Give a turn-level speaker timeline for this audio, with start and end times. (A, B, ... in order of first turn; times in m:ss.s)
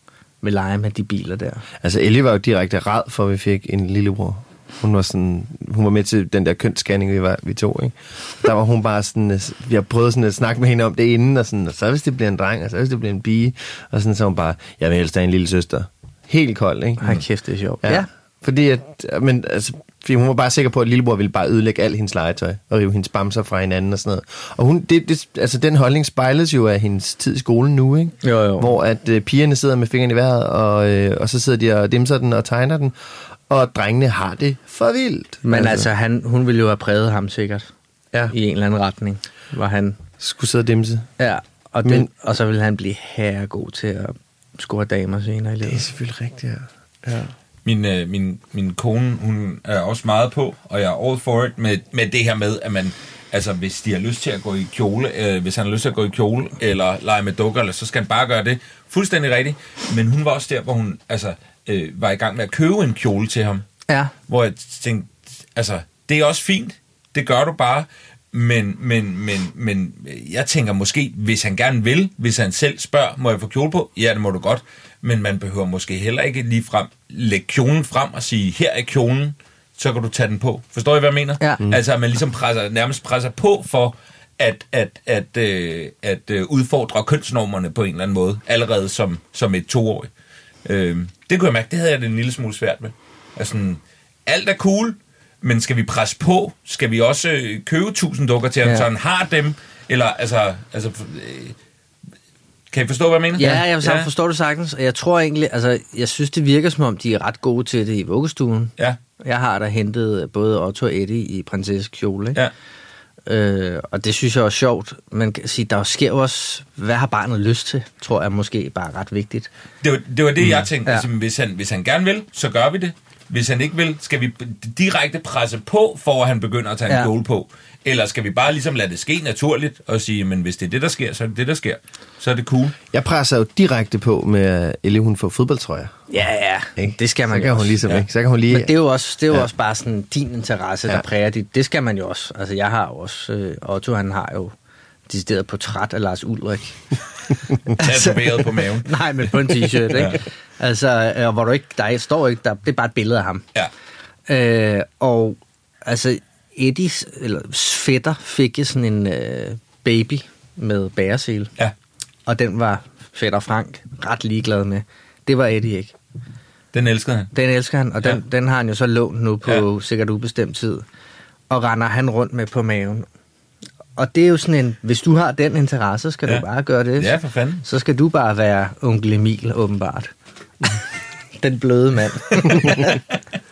0:00.4-0:01.6 A
0:01.8-0:17.0 B
0:17.0-0:18.1 A
0:17.8-0:32.9 B
0:28.2-0:28.7 A
0:33.5-0:35.9 B
0:35.4-0:40.0 A
0:40.2-0:41.1 B
0:41.2-0:45.8 A
0:41.8-0:42.1 B
0:45.6-0:47.3 B
0:47.6-1:03.6 C
1:04.3-1:30.1 C
1:21.4-1:21.7 A
1:30.6-1:41.6 C
1:42.7-1:44.1 C
1:43.4-1:52.4 A
1:53.2-1:59.5 A
1:59.8-2:12.8 C
2:12.9-2:16.0 B
2:16.1-2:17.8 A
2:16.8-2:18.7 B
2:18.5-2:24.5 A
2:25.1-2:26.8 A
2:27.8-2:29.3 C
2:27.8-2:33.4 A
2:29.9-2:30.2 C
2:34.3-2:41.5 A
2:42.2-2:45.9 A
2:46.7-2:47.3 C
2:47.3-2:50.8 A
2:51.5-2:53.0 A
2:54.0-3:00.1 A
2:57.0-2:57.6 C
3:01.4-3:03.0 A
3:02.4-3:03.0 B